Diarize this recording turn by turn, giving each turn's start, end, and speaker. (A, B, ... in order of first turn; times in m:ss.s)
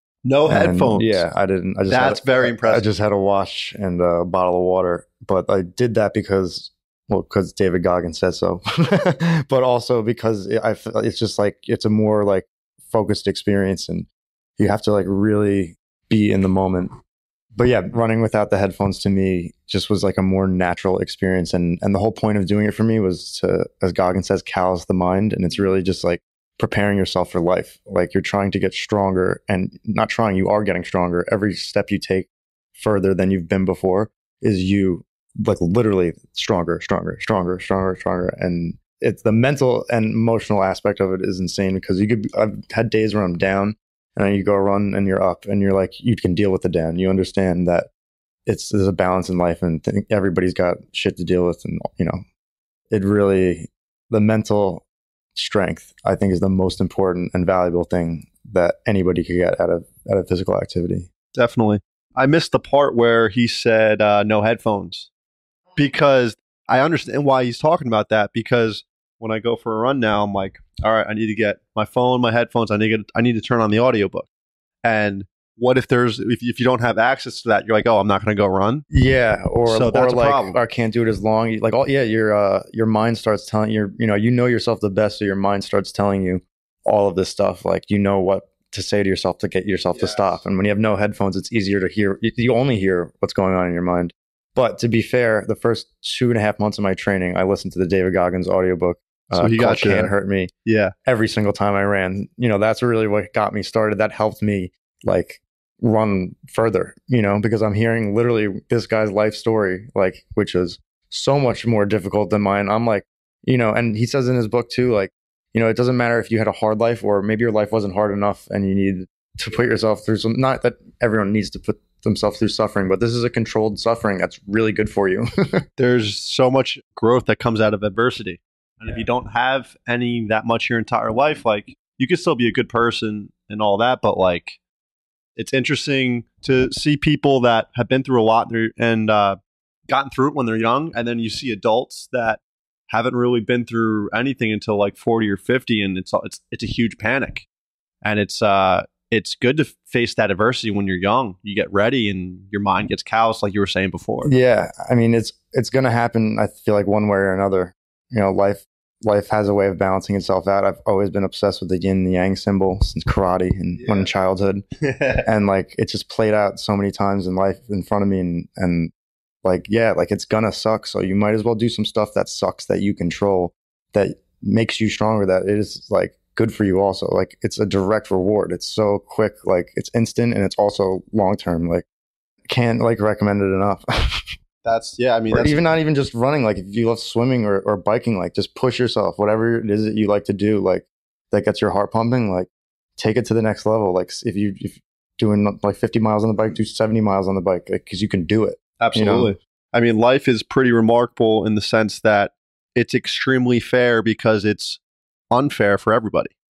0:00.2-0:01.3 A
0:00.5-0:16.9 B
0:01.9-0:02.8 A
0:17.6-0:47.9 B
0:48.5-0:52.2 B
0:52.9-0:54.8 B
0:55.4-1:01.1 B
1:01.3-1:05.1 A
1:05.8-1:14.3 A
1:14.8-1:18.8 A
1:18.9-1:40.5 B
1:19.6-1:20.6 A
1:39.3-1:40.1 A
1:40.7-1:40.9 A
1:41.0-2:05.3 B
2:05.8-2:14.6 A
2:15.4-2:27.5 A
2:28.0-2:34.3 A
2:34.2-2:44.6 B
2:43.8-2:44.1 A
2:44.8-2:45.3 A
2:45.2-2:48.9 B
2:49.4-3:01.8 B
3:02.5-3:04.2 B
3:04.6-3:05.6 A
3:05.3-3:19.3 B
3:18.8-3:24.8 A
3:25.3-3:26.3 A